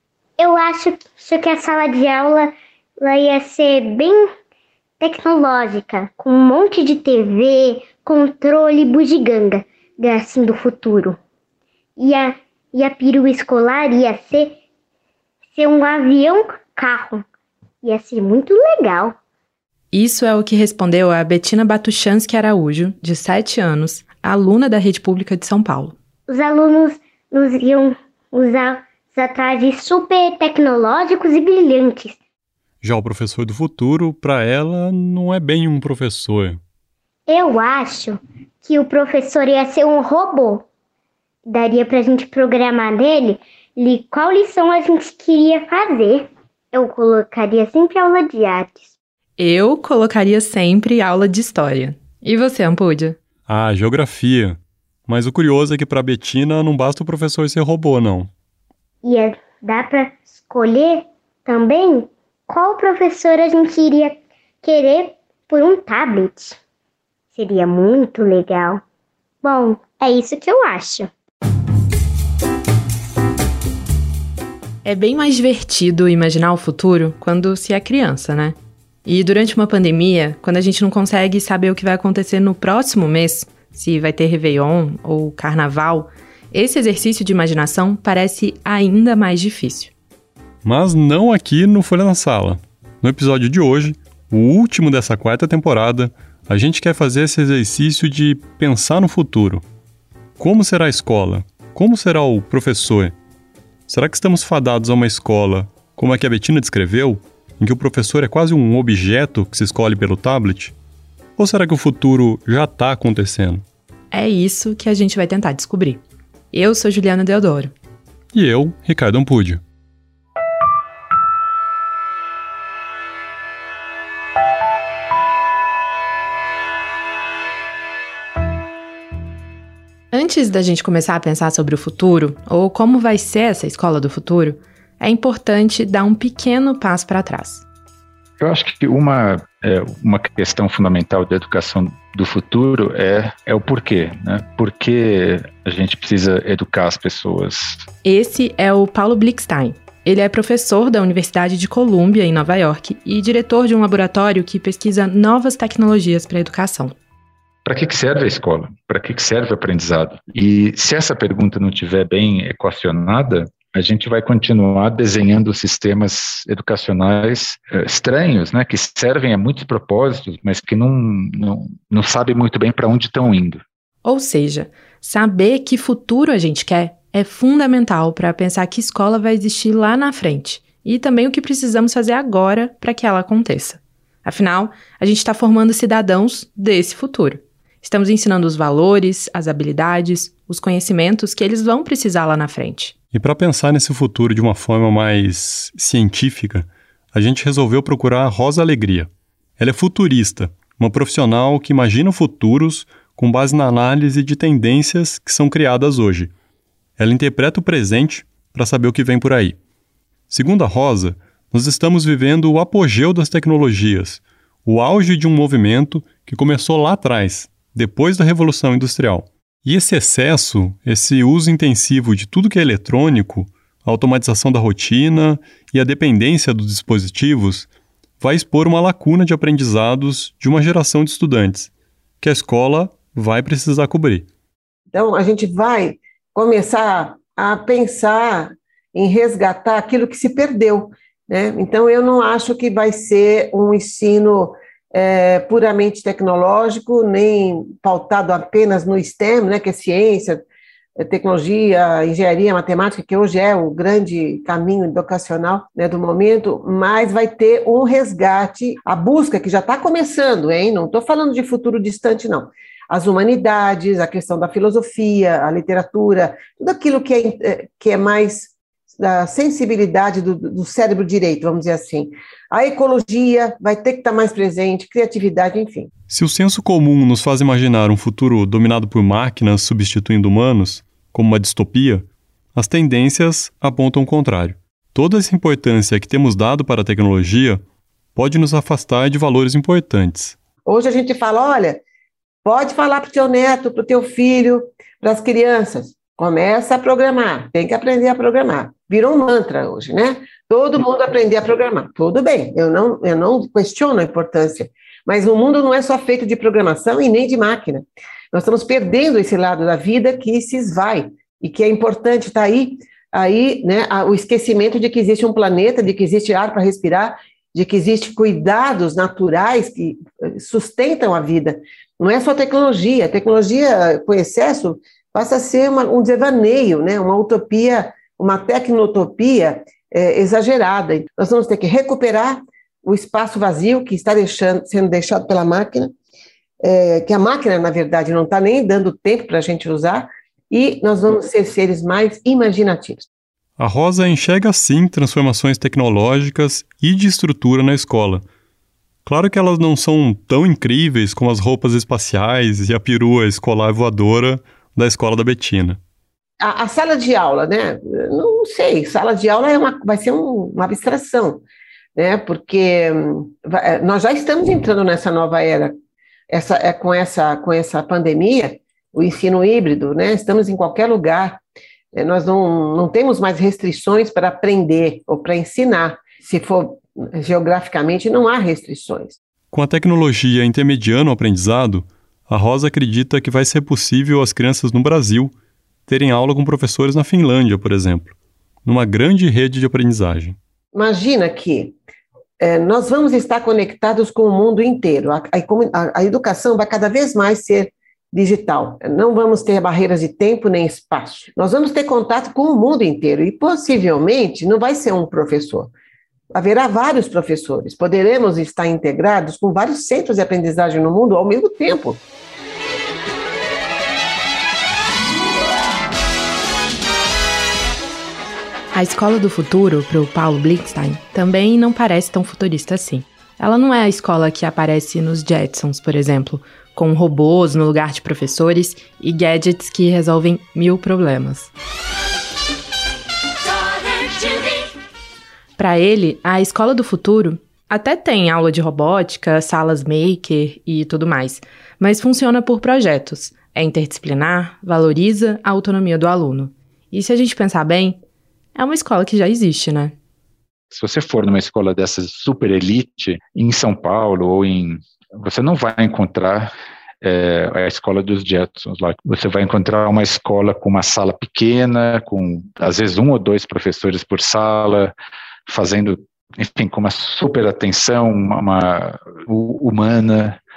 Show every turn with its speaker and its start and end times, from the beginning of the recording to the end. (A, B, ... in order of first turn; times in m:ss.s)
0:00.4-0:04.3 A
0:05.0-0:11.2 A
0:12.0-0:14.6 A
0:15.6-0:17.2 A
0:17.8-0:19.2 A
0:19.9-0:25.9 B
0:26.3-0:32.2 A
0:32.8-0:36.6 C
0:37.3-0:40.6 A
0:41.4-0:48.9 A
0:49.4-0:53.2 B
0:53.5-0:58.3 C
0:59.0-1:06.6 A
1:07.3-1:08.8 A
1:09.4-1:11.1 A
1:14.8-1:29.9 B
1:30.6-1:39.6 C
1:40.4-1:43.1 C
1:43.9-1:50.7 C
1:51.4-1:53.6 C
1:54.1-1:57.7 B
1:58.3-1:59.6 C
2:10.1-2:17.6 B
2:18.4-2:27.8 D
2:28.0-2:36.9 B
2:37.6-2:53.6 D
2:54.0-3:12.9 B
3:13.1-3:26.3 C
3:27.0-3:29.6 C
3:30.3-3:47.7 C
3:48.2-3:51.7 C
3:52.2-3:54.3 C
3:54.9-4:10.4 E
4:11.0-4:35.9 E
4:36.1-4:47.6 C
4:48.2-4:50.4 C
4:50.6-4:51.8 E
4:52.4-5:35.9 E
5:36.6-5:43.1 E
5:43.6-5:48.2 C
5:49.0-5:55.8 C
5:56.4-6:01.4 E
6:02.0-6:05.7 E
6:06.3-6:11.4 E
6:11.9-6:19.2 E
6:19.5-6:25.3 C
6:25.9-6:28.1 C
6:28.6-6:30.4 C
6:30.7-6:31.7 E
6:32.4-6:45.7 E
6:46.3-6:52.0 E
6:58.7-7:11.5 B
7:15.6-7:28.0 B
7:28.5-7:29.9 B
7:30.7-7:44.9 D
7:45.5-7:50.4 D